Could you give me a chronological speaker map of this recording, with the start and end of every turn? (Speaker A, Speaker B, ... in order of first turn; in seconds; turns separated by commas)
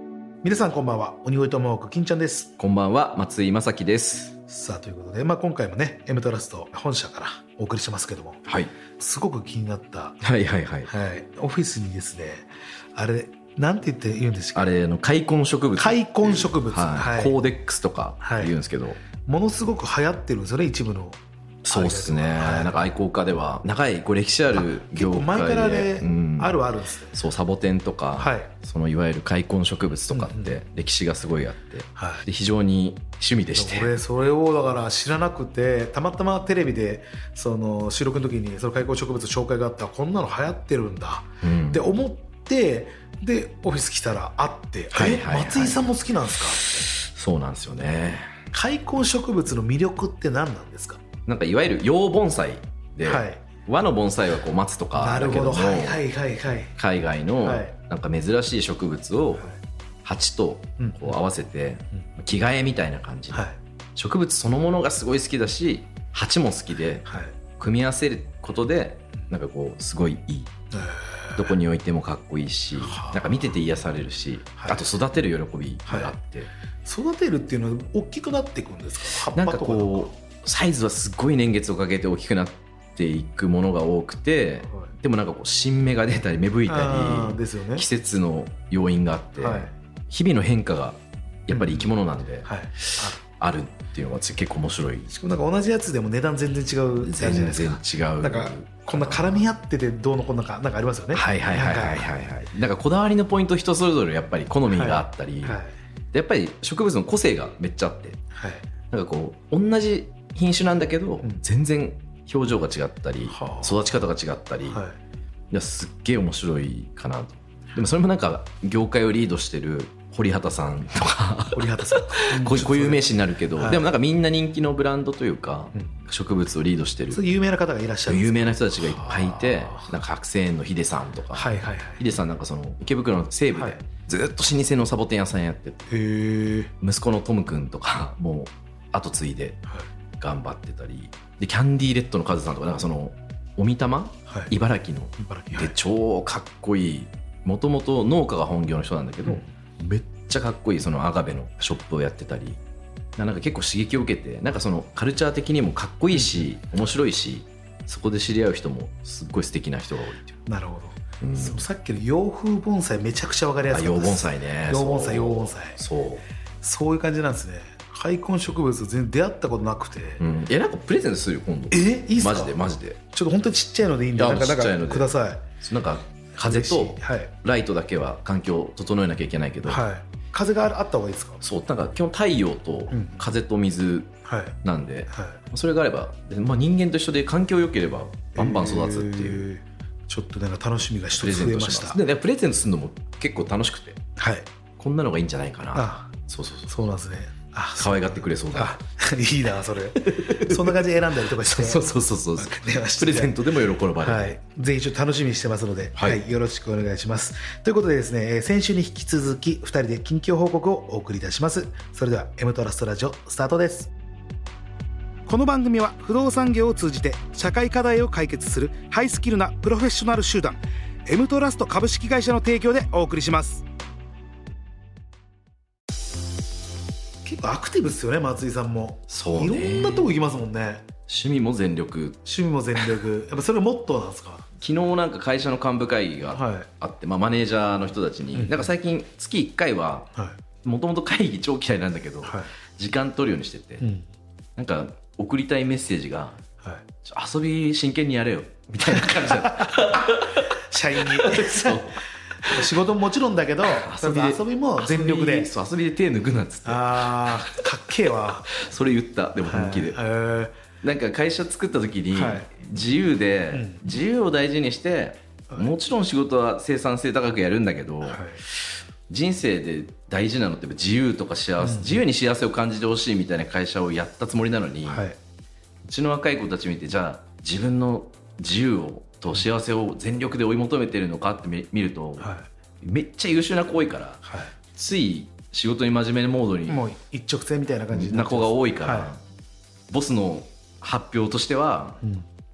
Speaker A: 0.4-2.5, Speaker B: 2.6-4.3, Speaker A: 4.5-8.4, Speaker B: 8.4-8.7, Speaker A: 9.0-10.2, Speaker B: 10.2-10.9, Speaker A: 10.9-14.7, Speaker B: 14.5-19.0, Speaker A: 15.8-17.4, Speaker A: 18.2-18.5, Speaker A: 19.2-21.2, Speaker B: 21.6-33.9, Speaker A: 21.7-22.8, Speaker A: 24.6-27.2, Speaker A: 28.1-28.5, Speaker A: 30.1-30.6, Speaker A: 31.9-32.2, Speaker A: 33.5-46.6, Speaker B: 41.4-41.9, Speaker B: 44.9-45.9, Speaker B: 46.5-48.4, Speaker A: 48.5-51.0, Speaker B: 51.2-56.0, Speaker A: 53.0-53.4, Speaker A: 55.0-56.7, Speaker B: 56.8-59.5, Speaker A: 57.4-57.7, Speaker B: 60.0-70.5, Speaker A: 60.8-61.1, Speaker A: 67.1-67.3, Speaker A: 70.7-71.5, Speaker B: 71.3-76.5, Speaker A: 72.8-73.5, Speaker A: 75.9-76.1, Speaker A: 76.8-80.1, Speaker B: 79.3-95.1, Speaker A: 86.7-87.8, Speaker A: 89.4-89.7, Speaker A: 91.5-91.9, Speaker A: 92.4-93.2, Speaker A: 95.1-102.1, Speaker B: 97.0-99.5, Speaker B: 101.1-105.6, Speaker A: 104.7-105.7, Speaker B: 106.1-108.2, Speaker A: 108.3-108.6, Speaker B: 108.9-114.8, Speaker A: 113.3-114.0, Speaker A: 114.7-115.0, Speaker B: 115.5-127.2, Speaker A: 121.5-123.9, Speaker A: 127.1-129.9, Speaker B: 128.1-135.9, Speaker A: 131.3-132.0, Speaker A: 135.9-136.7, Speaker B: 136.8-139.6, Speaker B: 140.2-152.6, Speaker A: 145.2-145.7, Speaker B: 153.2-160.4, Speaker A: 156.1-156.4, Speaker A: 160.5-165.8, Speaker B: 161.2-161.6, Speaker B: 163.7-166.2, Speaker A: 166.6-170.2, Speaker B: 170.2-173.0, Speaker A: 171.7-172.6, Speaker A: 173.1-175.4, Speaker B: 174.2-179.8, Speaker A: 176.4-177.3, Speaker A: 179.7-181.4, Speaker B: 181.4-184.1, Speaker A: 182.9-183.2, Speaker A: 184.2-184.6, Speaker B: 184.6-189.5, Speaker A: 185.1-185.4, Speaker A: 188.3-192.0, Speaker B: 191.1-194.0, Speaker A: 194.2-194.4, Speaker B: 194.8-196.8, Speaker A: 195.7-196.1, Speaker A: 196.7-203.4, Speaker B: 197.8-198.8, Speaker B: 200.0-200.8, Speaker B: 201.4-204.3, Speaker A: 204.0-213.9, Speaker A: 215.3-223.6, Speaker A: 227.2-230.8, Speaker B: 229.1-230.2, Speaker B: 231.1-232.2, Speaker A: 232.2-234.4, Speaker B: 234.6-240.1, Speaker A: 236.3-236.7, Speaker A: 238.3-238.7, Speaker B: 240.6-243.8, Speaker A: 242.2-242.5, Speaker A: 243.8-244.1, Speaker B: 244.6-246.4, Speaker B: 247.0-252.7, Speaker A: 248.9-251.9, Speaker A: 252.4-255.5, Speaker B: 253.6-257.6, Speaker A: 256.6-258.5, Speaker B: 258.5-260.0, Speaker A: 259.4-260.6, Speaker B: 260.8-275.1, Speaker A: 262.1-262.5, Speaker A: 263.5-263.8, Speaker A: 268.0-268.4, Speaker A: 271.6-272.0, Speaker A: 274.9-275.1, Speaker B: 275.8-282.3, Speaker A: 282.2-282.4, Speaker B: 282.8-284.2, Speaker A: 284.2-284.5, Speaker B: 284.7-286.8, Speaker A: 286.7-289.1, Speaker B: 287.9-289.2, Speaker B: 289.9-292.0, Speaker A: 292.0-292.3